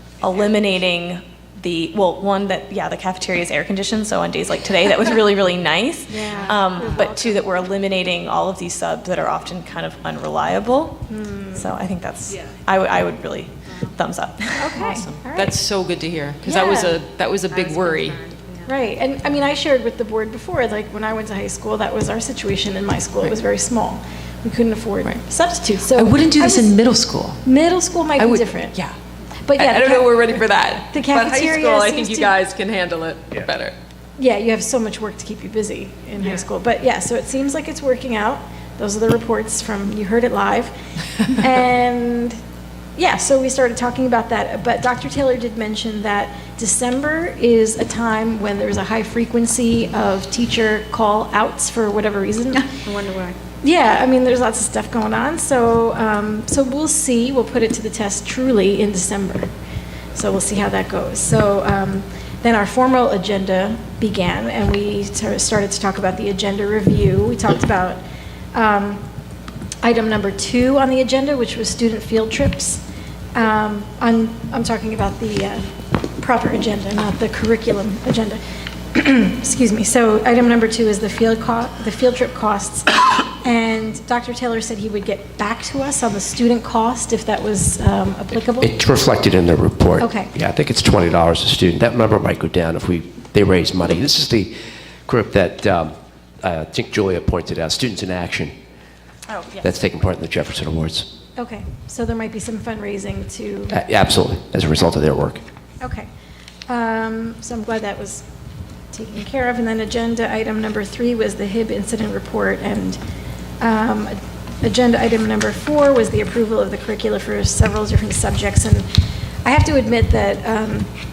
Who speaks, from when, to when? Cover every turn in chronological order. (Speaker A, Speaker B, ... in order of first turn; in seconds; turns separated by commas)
Speaker A: 0.2-11.0, Speaker B: 6.1-7.4, Speaker C: 6.3-6.9, Speaker B: 11.1-11.7, Speaker A: 11.6-14.8, Speaker B: 14.6-15.6, Speaker D: 14.8-18.2, Speaker B: 16.4-17.0, Speaker C: 17.6-19.1, Speaker B: 18.6-26.8, Speaker D: 25.9-27.5, Speaker B: 27.4-28.8, Speaker D: 28.2-28.9, Speaker B: 29.4-32.4, Speaker D: 29.6-33.7, Speaker B: 34.2-40.7, Speaker B: 41.3-42.4, Speaker B: 43.0-52.7, Speaker C: 52.9-53.3, Speaker B: 53.6-59.5, Speaker B: 60.1-68.0, Speaker B: 68.5-69.0, Speaker B: 69.8-72.8, Speaker B: 73.3-75.7, Speaker B: 76.2-78.4, Speaker B: 78.9-88.7, Speaker E: 88.5-94.5, Speaker B: 90.0-90.3, Speaker E: 95.1-98.5, Speaker A: 99.3-99.7, Speaker E: 99.6-101.1, Speaker B: 101.4-103.8, Speaker E: 103.7-105.4, Speaker B: 105.8-106.1, Speaker B: 106.7-108.2, Speaker B: 108.9-113.0, Speaker B: 113.6-118.9, Speaker B: 119.5-120.9